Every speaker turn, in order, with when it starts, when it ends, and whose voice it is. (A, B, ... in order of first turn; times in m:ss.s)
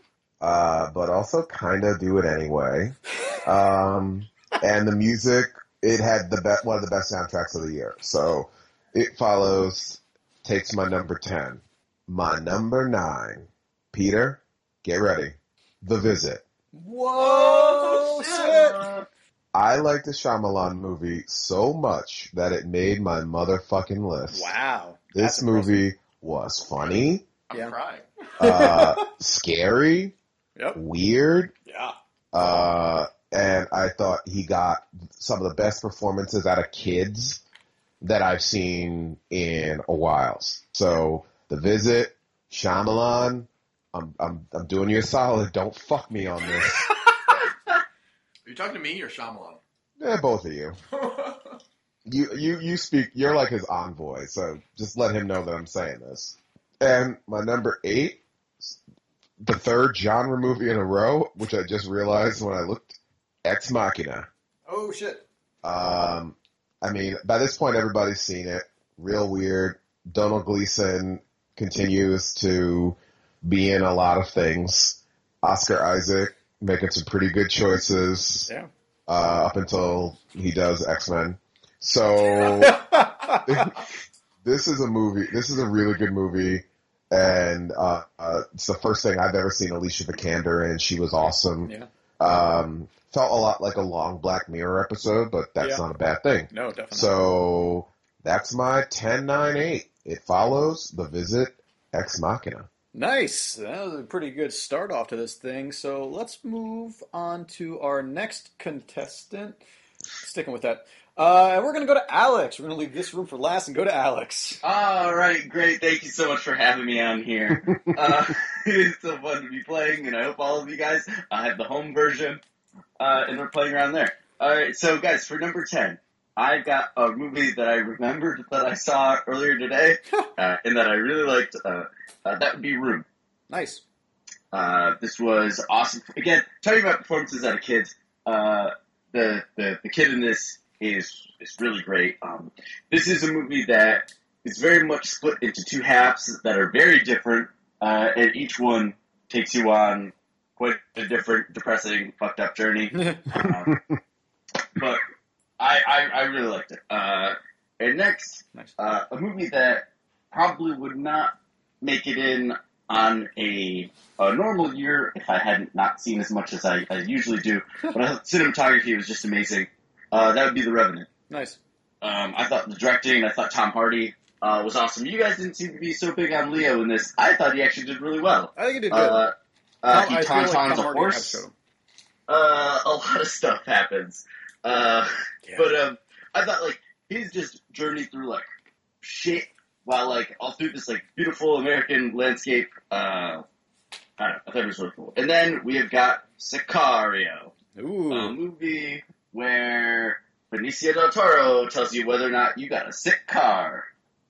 0:00.4-0:16.4 A
0:16.7-0:18.8 B
0:17.2-0:19.0 C
0:19.5-0:24.5 A
0:24.3-0:25.9 B
0:25.1-0:27.2 A
0:27.5-0:28.1 C
0:28.4-0:30.2 A
0:28.4-0:29.1 B
0:30.6-0:30.8 B
0:30.8-0:31.5 A
0:31.7-0:32.0 B
0:32.3-0:37.4 A
0:38.0-0:46.9 A
0:48.4-0:49.6 C
0:50.0-0:50.8 A
0:50.9-0:51.6 C
0:52.1-0:58.8 A
0:59.4-1:04.3 A
1:04.7-1:05.2 B
1:05.6-1:18.5 A
1:19.1-1:23.9 A
1:22.6-1:23.7 B
1:24.4-1:42.7 A
1:36.5-1:37.3 B
1:42.9-1:49.6 B
1:50.2-1:54.6 B
1:54.6-2:02.4 D
2:03.0-2:13.0 D
2:13.5-2:13.8 B
2:14.5-2:33.8 D
2:33.0-2:33.5 B
2:34.8-2:35.0 D
2:35.6-2:51.1 D
2:51.3-2:51.6 B
2:52.0-3:01.4 D
2:58.6-2:59.3 B
2:59.9-3:01.5 B
3:02.3-3:08.5 D
3:05.4-3:05.7 B
3:09.0-3:13.4 D
3:14.2-3:17.5 D
3:17.8-3:18.4 B
3:18.1-3:23.9 D